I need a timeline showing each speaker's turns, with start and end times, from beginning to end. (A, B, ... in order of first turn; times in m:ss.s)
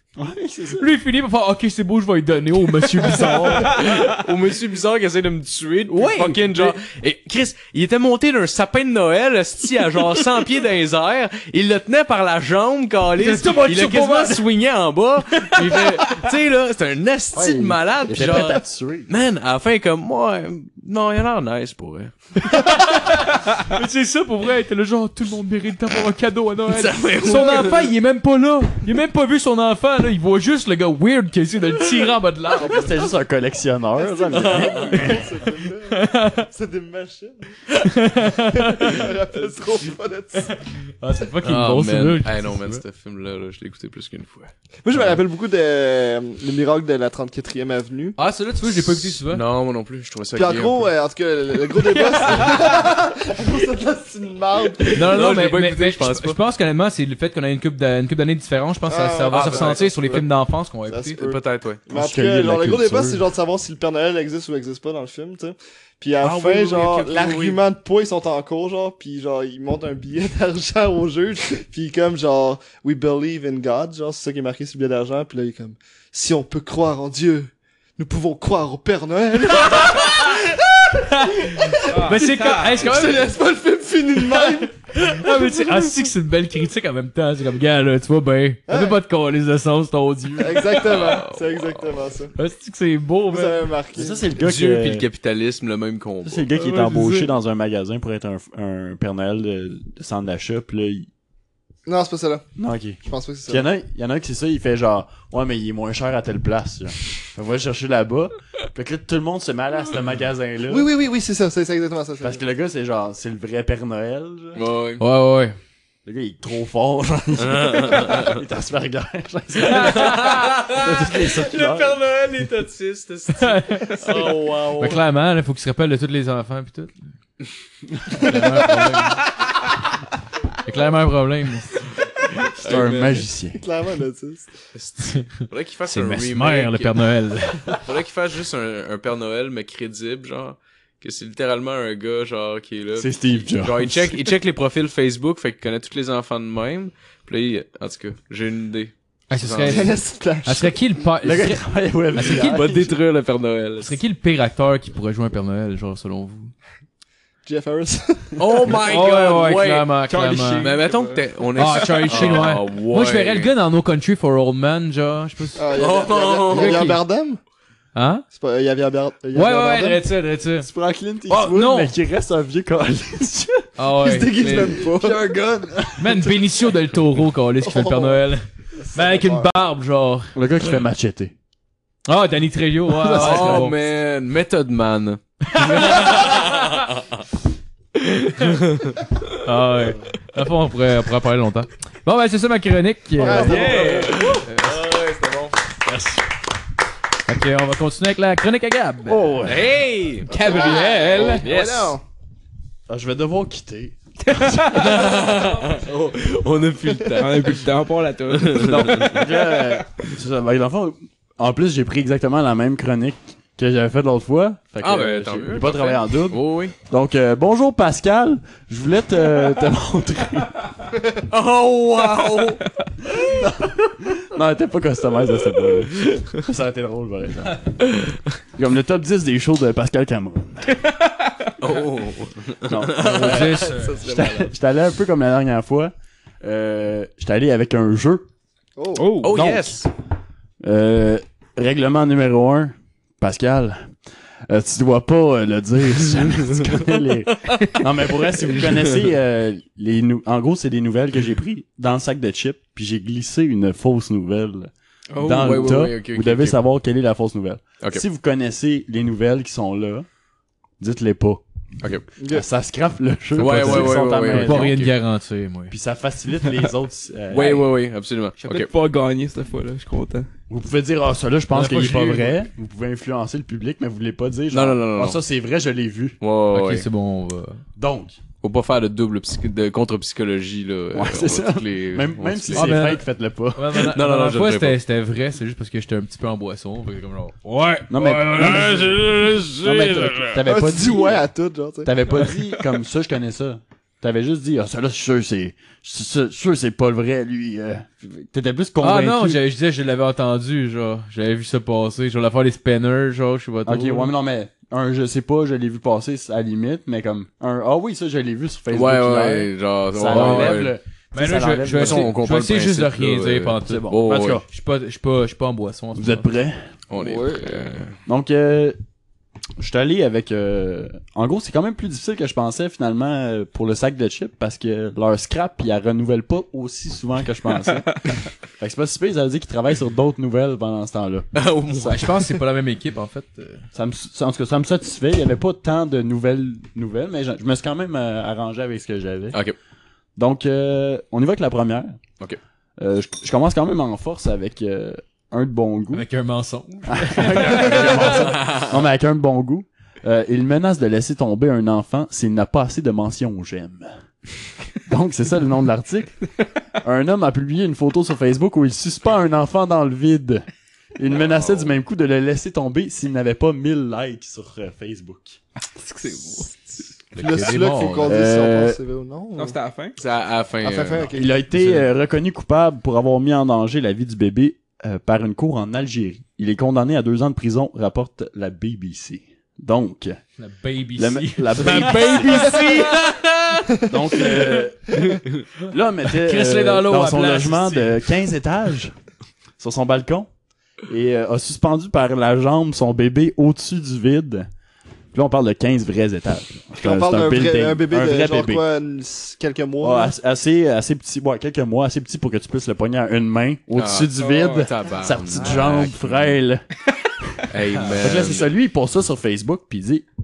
0:00.2-0:00.9 A
0:00.8-0:03.8 B
0:03.6-0:22.1 C
0:05.9-0:06.8 B
0:13.2-0:14.4 B
0:15.4-0:16.2 B
0:17.3-0:19.1 A
0:22.4-0:33.0 B
0:26.7-0:27.9 C
0:32.6-0:35.4 A
0:34.0-0:37.6 D
0:34.3-0:35.2 C
0:35.8-0:36.5 B
0:37.8-0:39.1 B
0:38.5-0:40.6 D
0:40.4-0:42.8 B
0:41.4-0:44.5 C
0:44.8-0:48.2 D
0:48.2-0:49.4 B
0:48.7-0:50.9 C
0:50.4-0:55.1 D
0:52.1-0:52.7 B
0:54.8-0:56.4 C
0:54.9-1:01.2 B
0:58.9-1:00.3 D
0:59.3-0:59.9 C
1:00.9-1:25.7 D
1:01.2-1:01.8 C
1:01.9-1:03.3 A
1:06.3-1:07.2 A
1:06.8-1:07.6 C
1:21.1-1:23.3 B
1:21.9-1:22.9 E
1:24.3-1:30.9 B
1:28.7-1:29.0 D
1:30.4-1:32.3 D
1:30.7-1:32.0 C
1:32.4-1:33.7 B
1:33.3-1:34.2 D
1:34.0-1:35.1 A
1:34.4-1:36.5 C
1:36.2-1:41.1 A
1:41.9-1:42.5 D
1:42.6-1:50.9 A
1:43.0-1:43.7 D
1:50.7-1:52.4 D
1:52.2-1:54.6 A
1:54.6-1:55.0 C
1:55.0-1:55.6 B
1:56.0-2:02.0 A
1:57.4-1:58.4 C
1:59.6-2:00.8 B
1:59.7-2:05.0 C
2:03.4-2:04.2 B
2:04.0-2:04.5 D
2:04.8-2:07.0 B
2:08.2-2:09.2 B
2:10.6-2:11.9 B
2:12.6-2:13.2 C
2:12.6-2:13.6 A
2:13.6-2:14.5 D
2:14.7-2:17.0 C
2:15.9-2:17.8 B
2:17.6-2:30.0 C
2:23.0-2:24.2 A
2:29.3-2:32.9 B
2:29.7-2:30.8 D
2:31.2-2:32.8 A
2:32.3-2:34.0 C
2:33.8-2:36.5 B
2:37.4-2:38.7 D
2:38.4-2:43.5 C
2:38.7-2:40.8 B
2:41.6-2:45.7 B
2:45.6-2:47.4 D
2:45.8-2:47.0 C
2:46.5-2:47.0 B
2:48.0-2:48.2 B
2:48.3-2:50.1 D
2:49.3-2:50.7 B
2:50.6-2:53.7 A
2:51.3-2:51.9 B
2:53.8-2:54.7 B
2:54.0-2:55.2 D
2:54.5-2:56.4 A
2:56.0-3:00.4 B
2:57.6-2:58.2 D
2:58.8-2:59.5 D
3:00.4-3:01.3 A
3:02.1-3:03.8 B
3:03.0-3:03.7 A
3:03.1-3:07.1 C
3:05.5-3:06.5 B
3:08.0-3:09.0 C
3:09.4-3:14.8 B
3:13.2-3:14.2 D
3:13.2-3:14.3 E
3:13.6-3:15.6 C
3:17.3-3:19.4 B
3:19.1-3:19.7 A
3:19.4-3:22.0 C
3:20.3-3:21.5 E
3:20.3-3:22.0 D
3:22.9-3:24.8 A
3:24.2-3:25.0 E
3:24.7-3:27.6 C
3:27.2-3:29.3 E
3:28.3-3:29.3 C
3:28.8-3:40.7 A
3:34.8-3:36.8 C
3:41.3-3:42.6 C
3:42.1-3:42.4 A
3:43.0-3:47.8 A
3:48.6-3:50.8 A
3:50.9-3:51.3 E
3:51.6-3:54.5 C
3:52.6-3:58.3 A
3:53.0-3:54.0 B
3:58.8-3:59.2 D
3:59.0-3:59.7 E
3:59.2-3:59.9 C
4:00.6-4:03.9 A
4:04.5-4:20.1 A
4:07.5-4:07.7 C
4:08.6-4:09.0 C
4:15.1-4:15.9 E
4:15.2-4:16.6 C
4:20.8-4:21.4 A
4:22.2-4:22.4 D
4:22.3-4:24.8 A
4:23.4-4:24.9 C
4:23.4-4:25.7 B
4:25.7-4:27.7 A
4:27.3-4:28.7 C
4:28.4-4:30.3 E
4:30.5-4:36.2 A
4:31.5-4:32.4 B
4:34.5-4:35.2 C
4:36.2-4:36.9 C
4:36.5-4:37.6 B
4:37.8-4:38.2 A
4:38.4-4:42.8 C
4:40.9-4:43.8 A
4:42.5-4:43.0 B
4:43.6-4:50.3 B
4:43.7-4:44.8 C
4:47.9-4:49.0 A
4:48.4-4:50.2 C
4:49.6-4:51.3 A
4:50.4-4:52.0 D
4:51.8-4:59.4 A
4:58.8-5:04.1 B
5:03.7-5:12.2 A
5:08.7-5:10.7 C
5:10.1-5:16.3 B
5:11.7-5:14.4 C
5:13.7-5:14.4 A
5:16.0-5:16.7 A
5:16.9-5:18.0 C
5:17.0-5:17.6 D
5:18.1-5:18.8 A
5:19.6-5:28.0 A
5:28.6-5:31.3 A
5:31.4-5:32.2 C
5:31.8-5:33.6 B
5:33.7-5:39.4 A
5:40.2-5:42.0 A
5:42.8-5:46.0 A
5:45.9-5:48.3 B
5:46.9-5:53.9 A
5:47.6-5:48.8 C
5:54.9-5:56.2 A
5:56.8-6:00.4 A
6:01.0-6:05.4 A
6:01.1-6:01.7 C
6:05.7-6:06.7 E
6:07.1-6:08.2 B
6:07.2-6:09.6 D
6:08.0-6:08.8 A
6:09.4-6:10.0 E
6:10.0-6:11.1 C
6:10.6-6:11.3 D
6:11.1-6:20.2 A
6:11.6-6:11.9 B
6:20.4-6:23.3 B
6:21.0-6:22.8 A
6:22.2-6:23.0 C
6:23.9-6:29.0 A
6:26.1-6:28.0 B
6:29.6-6:30.3 A
6:30.9-6:34.5 A
6:35.1-6:38.6 A
6:36.8-6:40.1 D
6:39.8-6:46.7 A
6:43.8-6:46.4 C
6:44.2-6:44.7 E
6:47.5-6:48.5 C
6:48.0-6:50.1 A